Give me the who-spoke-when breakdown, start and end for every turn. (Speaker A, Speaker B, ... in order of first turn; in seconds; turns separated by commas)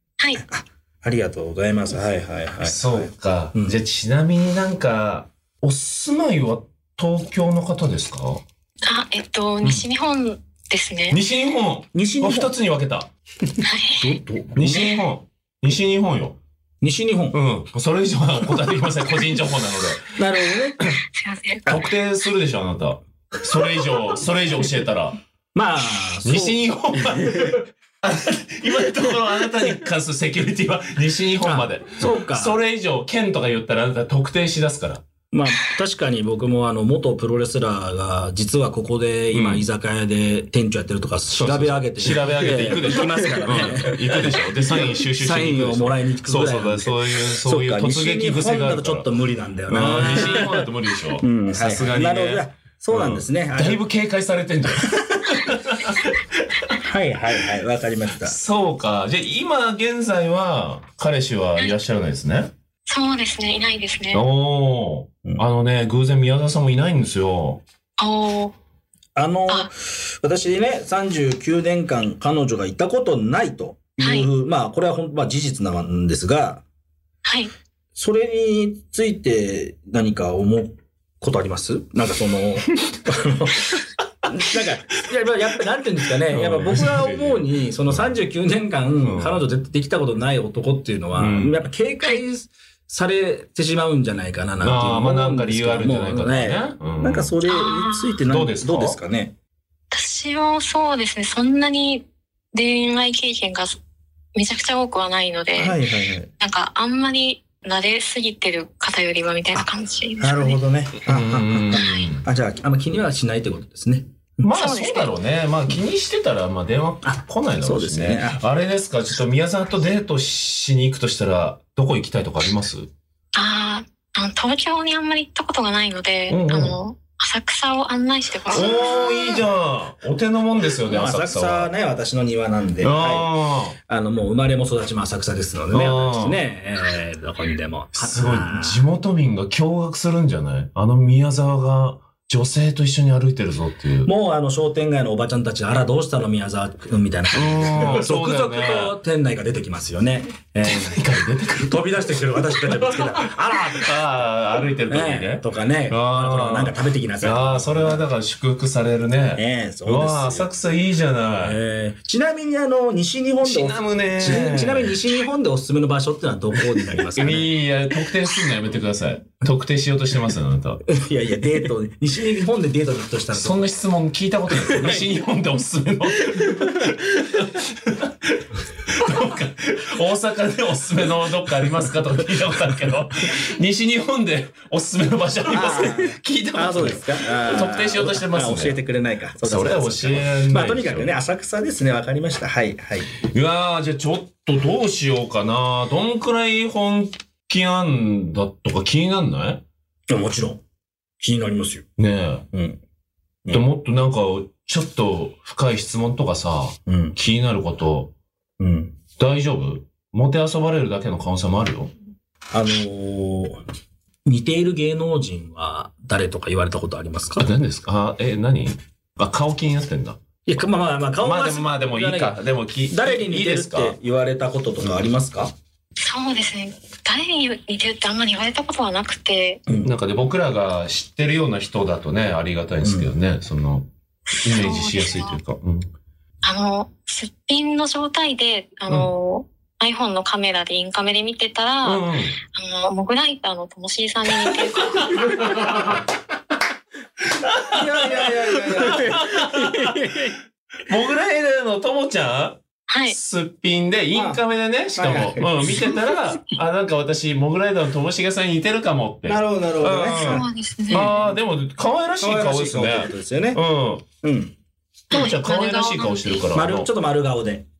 Speaker A: 0.4-3.8, Speaker B: 2.6-8.4, Speaker C: 8.8-11.2, Speaker B: 11.1-13.1, Speaker A: 11.9-12.5, Speaker C: 13.6-14.2, Speaker A: 13.9-15.0, Speaker B: 14.5-16.4, Speaker A: 16.8-17.4, Speaker B: 17.3-20.1, Speaker A: 20.2-20.9, Speaker C: 21.1-21.8, Speaker B: 21.6-25.2, Speaker A: 25.5-27.6, Speaker B: 26.2-35.0, Speaker A: 31.4-32.6, Speaker A: 35.3-50.7, Speaker B: 39.3-39.6, Speaker B: 41.4-49.1, Speaker B: 49.7-56.7, Speaker A: 51.2-53.8, Speaker A: 56.7-58.4, Speaker B: 58.2-62.5, Speaker C: 62.9-64.2, Speaker B: 64.1-67.6, Speaker C: 68.0-68.5, Speaker A: 69.2-76.6, Speaker C: 74.0-74.3, Speaker C: 77.2-77.5, Speaker A: 78.0-99.3, Speaker B: 86.3-88.1, Speaker B: 89.0-89.4, Speaker B: 91.1-91.6, Speaker B: 94.6-97.3, Speaker C: 97.4-98.2, Speaker B: 98.3-99.0, Speaker C: 99.9-103.8, Speaker C: 104.3-105.8, Speaker A: 105.6-106.3, Speaker C: 106.4-110.6, Speaker A: 110.2-114.5, Speaker B: 111.0-112.2, Speaker B: 114.4-122.9, Speaker C: 114.5-115.1, Speaker A: 117.0-118.4, Speaker C: 123.3-129.4, Speaker B: 126.3-126.8, Speaker B: 128.5-131.7, Speaker A: 130.8-133.3, Speaker B: 132.8-133.8, Speaker A: 133.9-138.8, Speaker B: 135.7-136.4, Speaker B: 137.9-144.1, Speaker A: 144.0-151.0, Speaker B: 147.3-149.0, Speaker B: 150.6-151.9, Speaker A: 151.6-153.9, Speaker B: 153.7-161.6, Speaker A: 154.9-158.1, Speaker A: 159.3-160.5, Speaker A: 161.4-167.5, Speaker B: 163.4-165.0, Speaker B: 166.7-170.8, Speaker A: 170.8-173.7, Speaker B: 173.3-188.8, Speaker A: 174.6-175.0, Speaker A: 185.5-193.1, Speaker B: 189.4-191.1, Speaker B: 193.2-199.6, Speaker A: 200.1-200.6, Speaker A: 201.2-201.8, Speaker B: 202.0-202.4, Speaker A: 202.5-202.8, Speaker B: 203.5-208.1, Speaker A: 206.9-207.2, Speaker A: 208.6-208.9, Speaker B: 209.2-211.9, Speaker A: 212.5-213.6, Speaker A: 214.2-217.5, Speaker B: 217.4-220.2, Speaker A: 220.4-222.4, Speaker B: 221.2-224.0, Speaker A: 222.9-225.5, Speaker C: 226.0-229.6, Speaker B: 229.8-235.9, Speaker A: 232.8-233.1, Speaker C: 234.4-235.4, Speaker C: 236.4-245.4, Speaker B: 241.8-242.4, Speaker B: 245.2-245.8, Speaker B: 247.4-264.0, Speaker A: 247.6-250.0, Speaker C: 252.9-253.2, Speaker A: 254.1-254.4, Speaker A: 254.9-255.9, Speaker A: 259.2-260.4, Speaker C: 260.1-261.1, Speaker A: 262.2-263.6, Speaker A: 264.2-264.5, Speaker B: 265.1-266.9, Speaker C: 265.1-266.4, Speaker A: 266.5-267.6